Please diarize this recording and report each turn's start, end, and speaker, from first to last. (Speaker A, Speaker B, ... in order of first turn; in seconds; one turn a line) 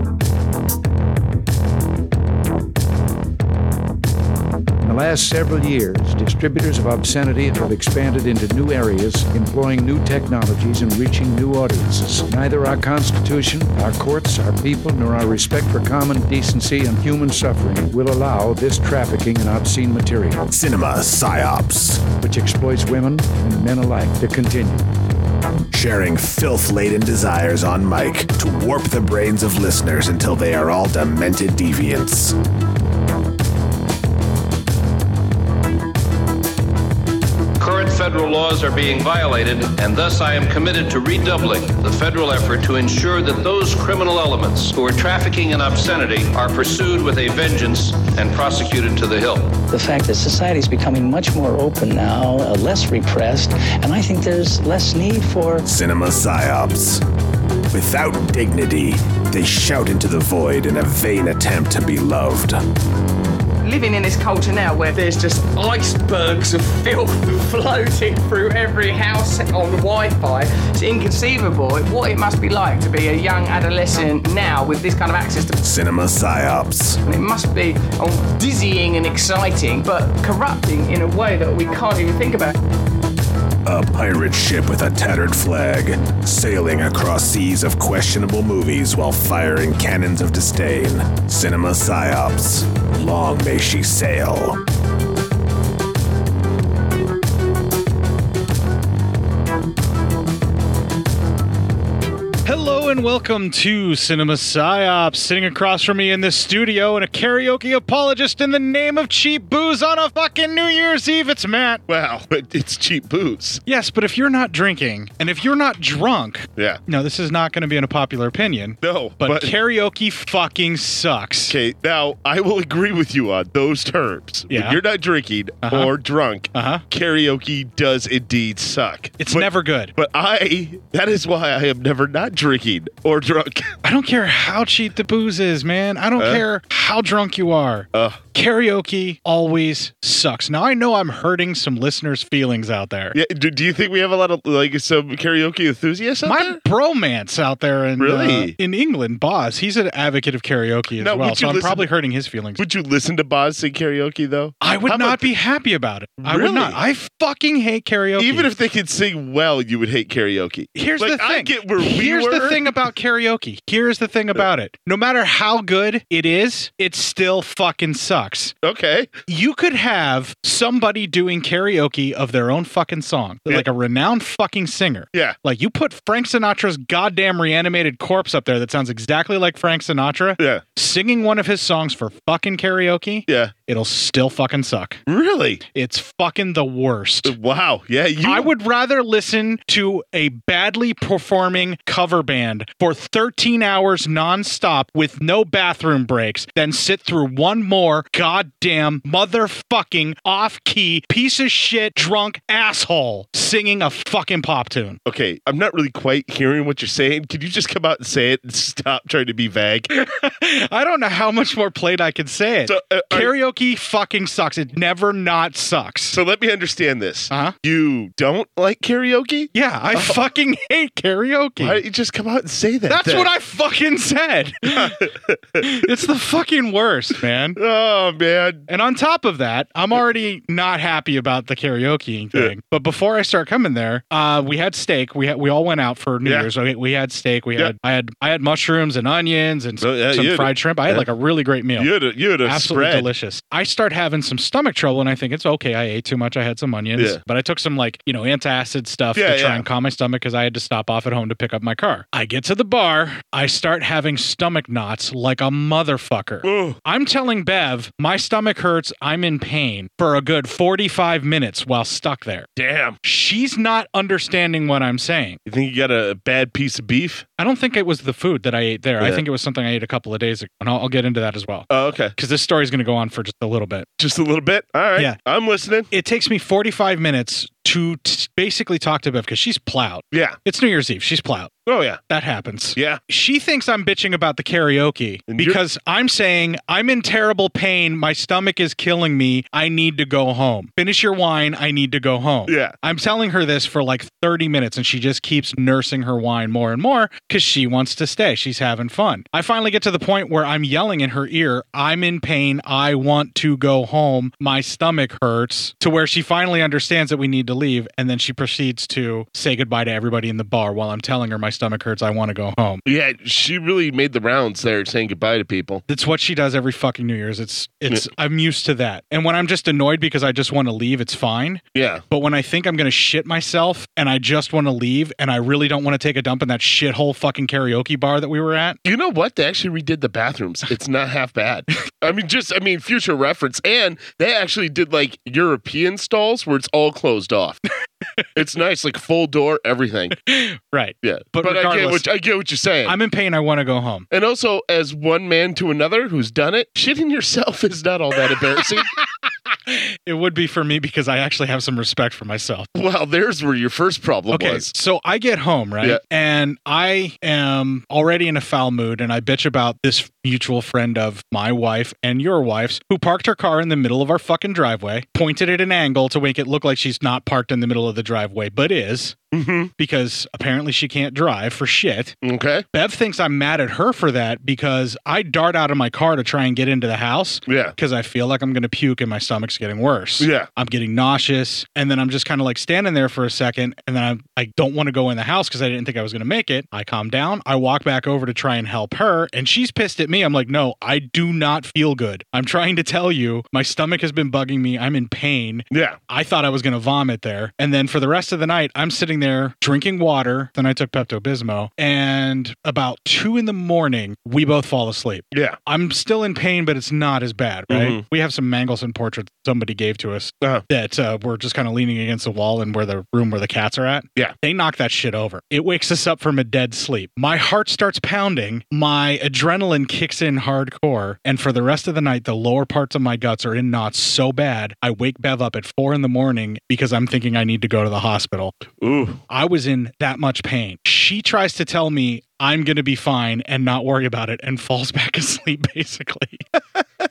Speaker A: 4.8-20.5
Speaker B: 20.5-22.1
Speaker A: 22.1-24.9
Speaker B: 25.7-32.3
Speaker C: 37.6-49.5
Speaker D: 49.7-55.7
Speaker B: 55.7-57.0
Speaker B: 57.7-62.6
Speaker E: 63.6-75.6
Speaker B: 75.6-77.0
Speaker E: 77.1-82.5
Speaker B: 83.6-94.6
Speaker F: 102.4-111.8
Speaker G: 111.9-113.6
Speaker F: 113.7-121.5
Speaker G: 118.8-119.5
Speaker G: 121.5-133.7
Speaker F: 124.5-124.8
Speaker F: 125.7-125.9
Speaker F: 126.5-126.8
Speaker F: 129.2-129.9
Speaker F: 133.8-143.2
Speaker G: 136.2-136.4
Speaker G: 137.9-138.2
Speaker G: 143.1-146.6
Speaker F: 146.2-152.6
Speaker G: 148.0-148.5
Speaker G: 151.0-151.8
Speaker G: 152.6-155.3
Speaker F: 154.6-158.5
Speaker G: 156.2-156.8
Speaker G: 158.2-162.7
Speaker F: 160.8-168.5
Speaker G: 168.6-169.1
Speaker F: 169.3-185.0
Speaker G: 185.1-185.6
Speaker F: 185.7-187.3
Speaker G: 187.2-188.5
Speaker F: 188.2-205.0
Speaker G: 205.1-209.9
Speaker F: 209.9-216.2
Speaker G: 212.7-213.3
Speaker G: 216.1-220.2
Speaker F: 217.3-217.5
Speaker F: 219.5-221.8
Speaker G: 221.6-223.3
Speaker F: 222.9-224.9
Speaker G: 224.7-225.7
Speaker F: 225.7-227.6
Speaker G: 227.6-228.7
Speaker F: 228.7-241.9
Speaker G: 239.8-241.1
Speaker G: 241.8-243.1
Speaker F: 242.4-262.5
Speaker G: 249.2-249.7
Speaker G: 256.4-256.8
Speaker G: 262.6-263.0
Speaker F: 263.0-265.4
Speaker G: 265.5-267.2
Speaker F: 267.4-273.9
Speaker G: 271.7-272.1
Speaker G: 274.0-275.9
Speaker F: 275.9-281.5
Speaker G: 280.1-280.4
Speaker G: 281.6-282.0
Speaker F: 282.1-312.8
Speaker G: 282.8-283.0
Speaker G: 285.3-285.6
Speaker G: 292.5-292.8
Speaker G: 312.9-315.8
Speaker F: 315.9-328.8
Speaker G: 321.8-322.0
Speaker G: 328.9-337.6
Speaker G: 338.4-340.1
Speaker F: 340.3-342.0
Speaker G: 341.0-343.0
Speaker F: 342.9-344.1
Speaker G: 344.1-348.9
Speaker F: 349.7-352.7
Speaker G: 352.8-354.7
Speaker F: 354.3-369.1
Speaker G: 369.3-369.7
Speaker F: 369.8-372.1
Speaker G: 372.2-372.6
Speaker F: 372.7-428.5
Speaker G: 377.5-377.8
Speaker G: 380.2-380.5
Speaker G: 395.7-396.0
Speaker G: 405.3-405.6
Speaker G: 407.7-408.0
Speaker G: 428.8-429.2
Speaker F: 429.3-436.4